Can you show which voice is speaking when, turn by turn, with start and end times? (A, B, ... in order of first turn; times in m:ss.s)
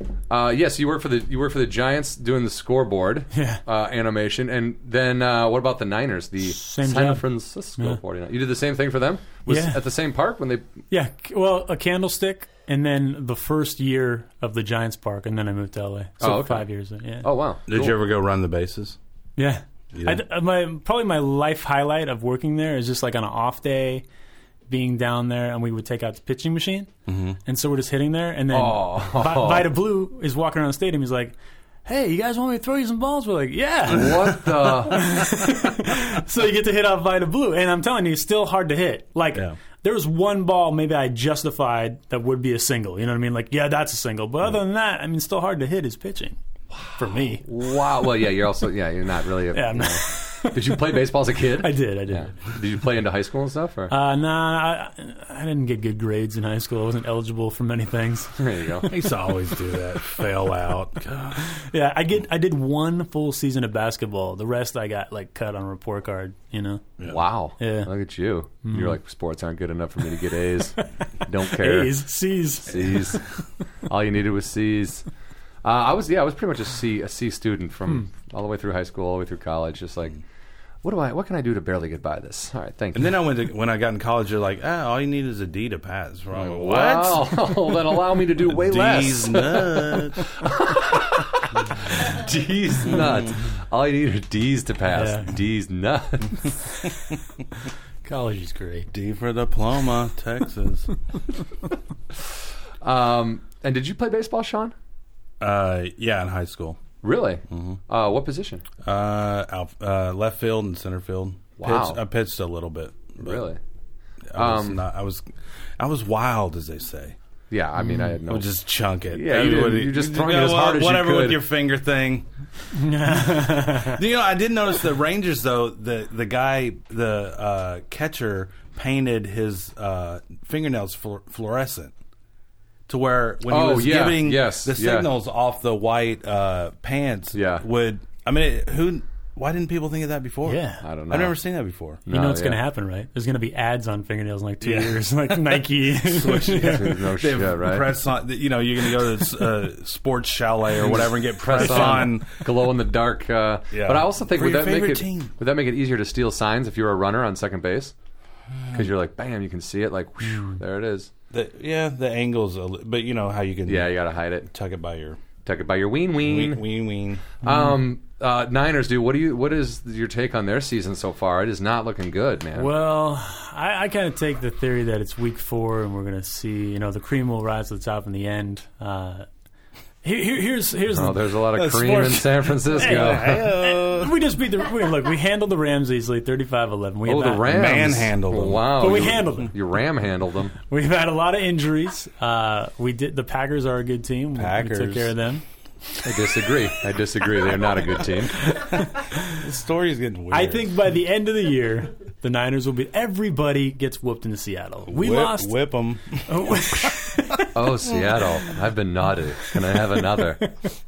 0:00.3-0:10.7 A
0:03.3-0:03.6 B
0:06.4-0:07.3 B
0:09.5-0:09.8 B
0:10.9-0:17.3 B
0:16.2-0:16.7 A
0:17.2-0:18.0 A
0:17.7-0:19.0 C
0:19.4-0:24.0 B
0:19.9-0:20.2 C
0:24.7-0:26.9 B
0:27.1-0:27.4 C
0:27.4-0:31.3 B
0:28.5-0:29.7 A
0:31.8-0:46.4 B
0:33.9-0:35.2 A
0:46.8-0:53.9 A
0:47.0-0:47.5 B
0:49.5-0:50.8 B
0:51.6-0:52.6 B
0:53.9-0:58.4 B
0:58.4-0:58.9 A
0:58.9-1:01.5 C
1:01.5-1:06.9 B
1:07.0-1:12.0 A
1:07.6-1:07.9 B
1:08.6-1:09.0 B
1:11.5-1:13.2 B
1:12.6-1:13.2 A
1:13.9-1:15.1 A
1:15.6-1:20.2 A
1:20.8-1:23.2 A
1:23.0-1:27.7 C
1:26.3-1:36.6 A
1:28.5-1:30.3 C
1:32.9-1:33.3 C
1:34.9-1:35.3 B
1:38.0-1:38.9 B
1:38.9-1:40.9 C
1:42.8-1:44.8 A
1:45.4-1:46.8 C
1:47.0-1:48.6 A
1:47.5-1:47.8 C
1:48.8-1:53.4 C
1:51.6-1:52.0 A
1:53.2-1:53.6 A
1:54.3-1:55.2 C
1:54.4-1:54.8 A
1:55.8-1:57.2 C
1:57.5-1:58.5 A
1:57.9-2:02.3 C
1:59.1-2:01.4 A
2:02.7-2:04.0 B
2:03.8-2:11.9 C
2:12.9-2:22.0 C
2:13.5-2:15.1 A
2:17.3-2:17.6 A
2:20.5-2:20.8 B
2:20.8-2:21.4 A
2:22.1-2:22.6 A
2:22.1-2:27.0 B
2:24.6-2:25.0 C
2:26.0-2:32.4 C
2:26.3-2:28.0 A
2:30.8-2:37.9 A
2:33.7-2:35.3 C
2:38.6-2:38.9 C
2:38.7-2:41.1 A
2:41.3-2:43.9 C
2:43.7-2:44.5 A
2:44.5-2:45.2 C
2:45.4-2:46.6 A
2:46.2-2:47.3 C
2:47.4-2:52.7 A
2:52.6-2:59.3 B
3:00.0-3:07.6 B
3:00.9-3:03.5 A
3:01.6-3:02.2 C
3:02.8-3:04.2 C
3:07.0-3:10.6 A
3:07.4-3:09.1 C
3:08.8-3:09.5 B
3:10.7-3:15.4 B
3:14.4-3:15.1 C
3:16.0-3:18.5 A
3:18.6-3:19.4 B
3:19.3-3:20.7 C
3:20.3-3:25.6 B
3:24.9-3:26.9 C
3:26.3-3:27.5 B
3:27.5-3:30.5 A
3:30.1-3:30.5 B